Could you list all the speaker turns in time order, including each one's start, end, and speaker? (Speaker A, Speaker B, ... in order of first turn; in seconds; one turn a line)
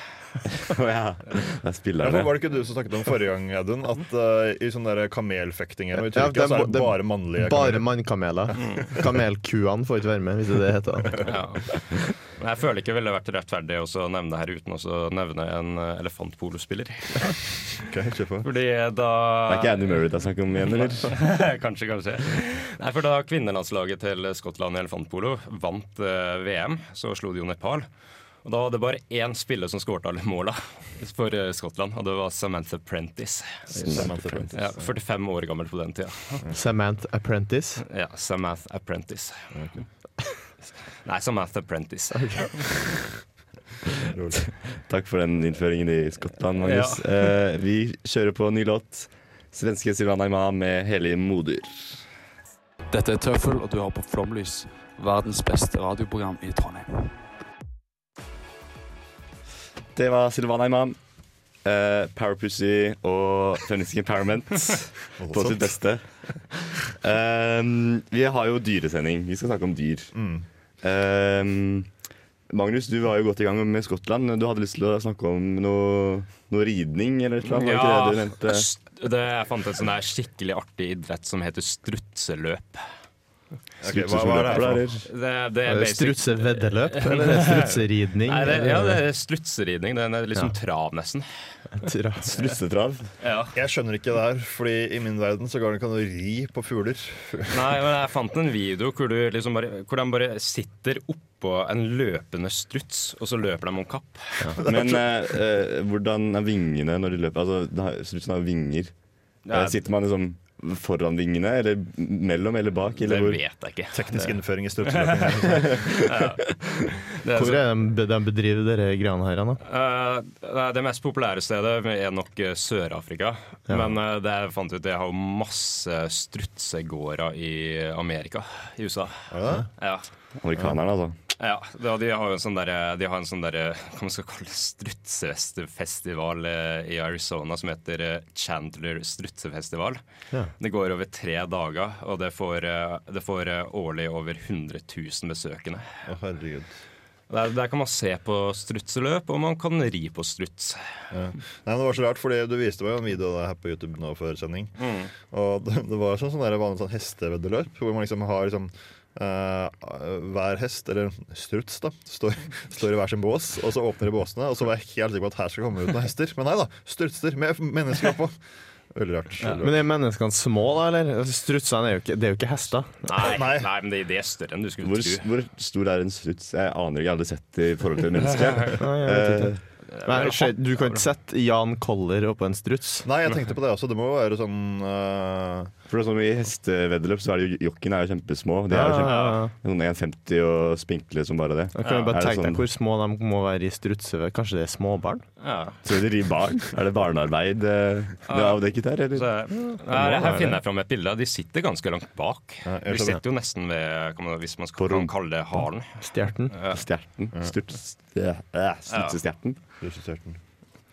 Speaker A: 0.5-2.4
Speaker B: 2.0-7.9
Speaker C: 6.1-11.2
Speaker B: 8.5-9.0
Speaker D: 11.2-17.3
Speaker B: 17.8-18.5
Speaker D: 18.4-19.8
Speaker A: 19.5-21.1
Speaker D: 20.7-27.9
Speaker D: 28.4-36.4
Speaker B: 33.7-34.9
Speaker A: 33.8-34.5
Speaker C: 36.5-37.8
Speaker D: 37.9-39.4
Speaker B: 39.5-39.8
Speaker D: 41.0-42.6
Speaker C: 42.1-43.0
Speaker B: 44.1-44.5
Speaker A: 44.8-52.0
Speaker D: 46.6-47.3
Speaker E: 52.9-57.1
Speaker A: 59.9-61.0
Speaker A: 61.6-70.1
Speaker B: 65.2-65.8
Speaker B: 70.1-70.5
Speaker A: 70.8-71.9
Speaker A: 72.5-78.7
Speaker D: 77.5-82.8
Speaker B: 83.8-84.8
Speaker A: 83.8-85.1
Speaker D: 84.5-91.2
Speaker C: 85.7-89.0
Speaker C: 91.7-92.2
Speaker A: 92.2-93.1
Speaker D: 93.2-93.5
Speaker B: 93.5-97.6
Speaker D: 97.5-104.4
Speaker A: 104.6-108.9
Speaker D: 109.5-109.8
Speaker A: 109.5-113.4
Speaker D: 113.0-114.2
Speaker B: 113.9-116.1
Speaker D: 115.2-116.5
Speaker D: 117.2-117.6
Speaker C: 117.3-119.6
Speaker D: 119.7-130.1
Speaker B: 129.3-129.7
Speaker A: 130.4-131.2
Speaker D: 131.4-140.0
Speaker D: 140.6-145.9
Speaker B: 146.1-146.7
Speaker D: 147.3-150.8
Speaker B: 151.1-154.7
Speaker D: 154.8-155.1
Speaker B: 155.3-168.4
Speaker B: 168.9-169.8
Speaker C: 169.6-172.9
Speaker D: 173.1-175.3
Speaker B: 173.2-173.7
Speaker A: 174.8-179.6
Speaker C: 178.8-183.1
Speaker D: 180.0-180.9
Speaker B: 183.0-185.7
Speaker A: 185.9-192.6
Speaker C: 188.7-189.5
Speaker D: 189.0-189.4
Speaker C: 191.7-195.2
Speaker D: 191.8-192.1
Speaker D: 195.4-195.8
Speaker A: 195.8-199.3
Speaker D: 198.3-205.9
Speaker C: 200.0-200.5
Speaker B: 202.7-203.2
Speaker A: 204.8-205.1
Speaker C: 206.0-206.5
Speaker D: 206.5-206.8
Speaker A: 206.7-209.6
Speaker D: 208.9-209.2
Speaker B: 209.8-210.4